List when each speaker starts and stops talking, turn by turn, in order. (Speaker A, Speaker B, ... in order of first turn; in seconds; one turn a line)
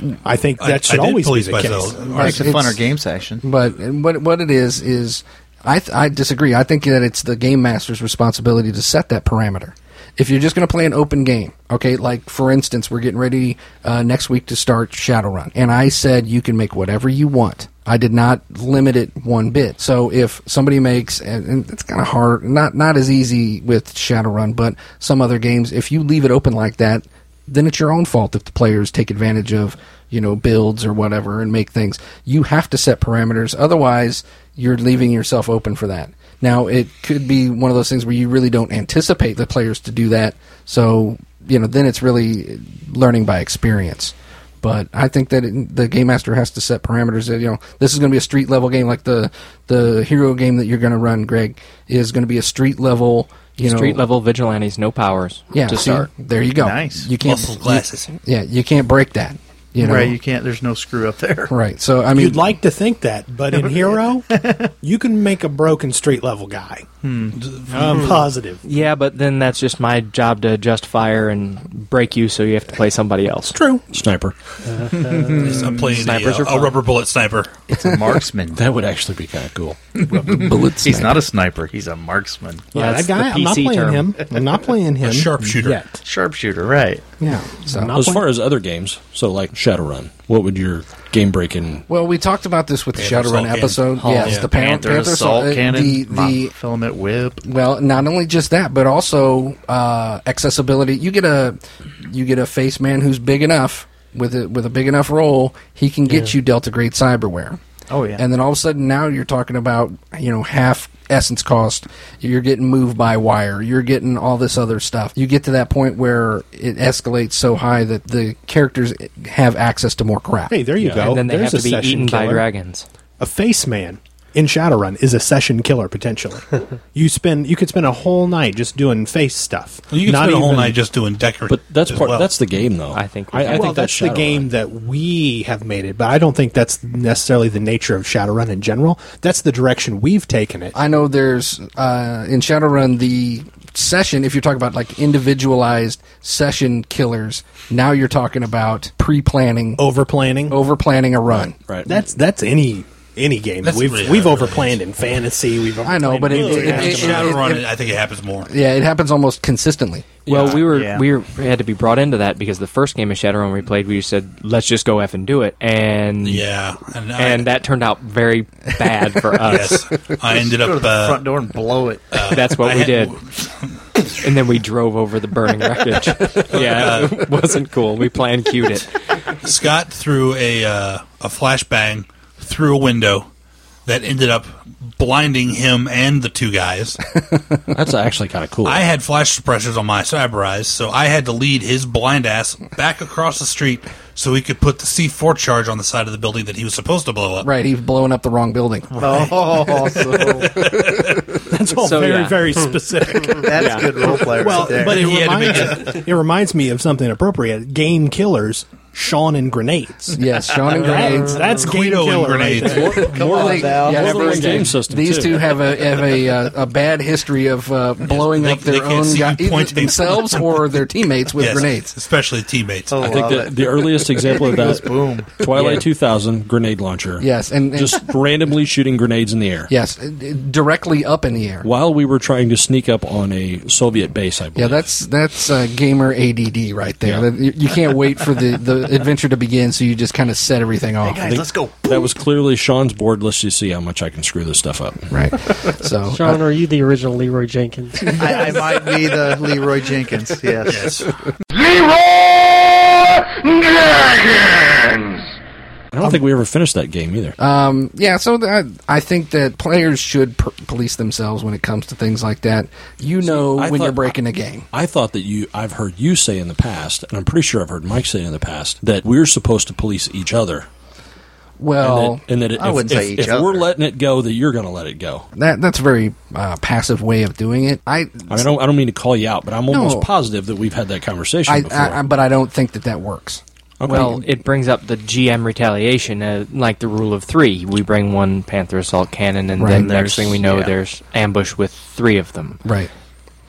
Speaker A: 0.2-2.4
Speaker B: 0.6-2.6
Speaker C: 2.2-2.8
Speaker D: 2.2-3.4
Speaker C: 3.4-54.0
Speaker E: 53.6-56.1
Speaker C: 55.5-60.2
Speaker D: 56.6-57.1
Speaker B: 57.2-58.1
Speaker D: 59.8-61.5
Speaker C: 61.5-62.5
Speaker A: 62.1-66.9
Speaker D: 63.9-64.7
Speaker D: 67.0-67.4
Speaker B: 67.4-68.2
Speaker A: 67.7-68.6
Speaker E: 68.6-73.6
Speaker A: 73.5-73.9
Speaker F: 73.9-74.3
Speaker G: 74.6-75.6
Speaker D: 75.0-75.7
Speaker B: 75.4-77.6
Speaker E: 75.6-76.8
Speaker D: 77.7-78.6
Speaker F: 78.5-79.8
Speaker D: 80.0-82.7
Speaker C: 80.1-81.2
Speaker A: 82.7-86.0
Speaker E: 82.7-84.1
Speaker B: 85.0-85.8
Speaker D: 86.0-87.0
Speaker A: 87.2-88.3
Speaker C: 87.7-88.0
Speaker F: 87.9-91.8
Speaker C: 91.9-96.5
Speaker B: 93.0-94.5
Speaker D: 94.0-97.4
Speaker C: 97.4-107.6
Speaker D: 107.9-108.2
Speaker C: 108.2-120.5
Speaker A: 120.5-122.5
Speaker F: 120.8-121.2
Speaker E: 121.0-122.9
Speaker A: 123.2-130.8
Speaker B: 129.9-132.3
Speaker F: 131.5-134.5
Speaker E: 132.9-133.8
Speaker A: 133.5-140.8
Speaker C: 140.7-149.8
Speaker A: 149.8-150.6
Speaker C: 150.5-151.6
Speaker F: 151.3-152.0
Speaker A: 151.9-157.4
Speaker B: 153.6-154.8
Speaker C: 155.8-157.7
Speaker D: 156.4-157.0
Speaker B: 156.6-158.5
Speaker C: 158.5-160.1
Speaker F: 160.3-160.7
Speaker E: 160.3-166.4
Speaker D: 160.7-161.1
Speaker B: 166.2-167.5
Speaker E: 167.2-169.8
Speaker B: 169.4-171.3
Speaker D: 170.3-172.2
Speaker B: 172.1-173.5
Speaker E: 172.2-173.2
Speaker E: 174.2-178.9
Speaker B: 176.5-177.3
Speaker B: 179.4-183.3
Speaker B: 183.9-187.0
Speaker F: 187.7-188.8
Speaker B: 188.6-197.5
Speaker C: 197.4-199.2
Speaker D: 199.0-200.7
Speaker B: 199.0-199.4
Speaker B: 200.0-201.2
Speaker C: 200.0-200.8
Speaker A: 201.4-210.2
Speaker E: 201.7-202.4
Speaker D: 203.3-205.8
Speaker E: 203.6-203.9
Speaker B: 204.8-206.0
Speaker C: 210.2-211.4
Speaker A: 210.8-213.1
Speaker G: 211.0-211.7
Speaker B: 211.6-213.1
Speaker F: 212.7-215.5
Speaker D: 212.7-214.6
Speaker C: 213.3-221.9
Speaker E: 214.3-214.7
Speaker B: 218.1-220.5
Speaker B: 221.4-223.2
Speaker D: 222.9-225.4
Speaker F: 223.0-229.7
Speaker E: 225.5-225.8
Speaker C: 227.2-228.1
Speaker C: 229.7-231.7
Speaker F: 231.6-234.8
Speaker C: 234.6-241.5
Speaker D: 241.0-242.0
Speaker F: 241.8-245.1
Speaker C: 245.1-246.4
Speaker G: 246.1-248.6
Speaker D: 248.1-251.1
Speaker B: 250.7-251.1
Speaker F: 255.9-257.4
Speaker C: 257.4-264.7
Speaker F: 263.2-264.1
Speaker F: 264.7-270.7
Speaker C: 271.6-272.2
Speaker F: 271.8-275.3
Speaker D: 272.6-273.7
Speaker C: 275.4-278.5
Speaker F: 278.3-282.0
Speaker C: 279.7-280.1
Speaker C: 281.5-284.3
Speaker F: 283.8-284.2
Speaker E: 283.9-292.6
Speaker C: 289.6-289.9
Speaker D: 289.8-290.7
Speaker C: 292.6-292.9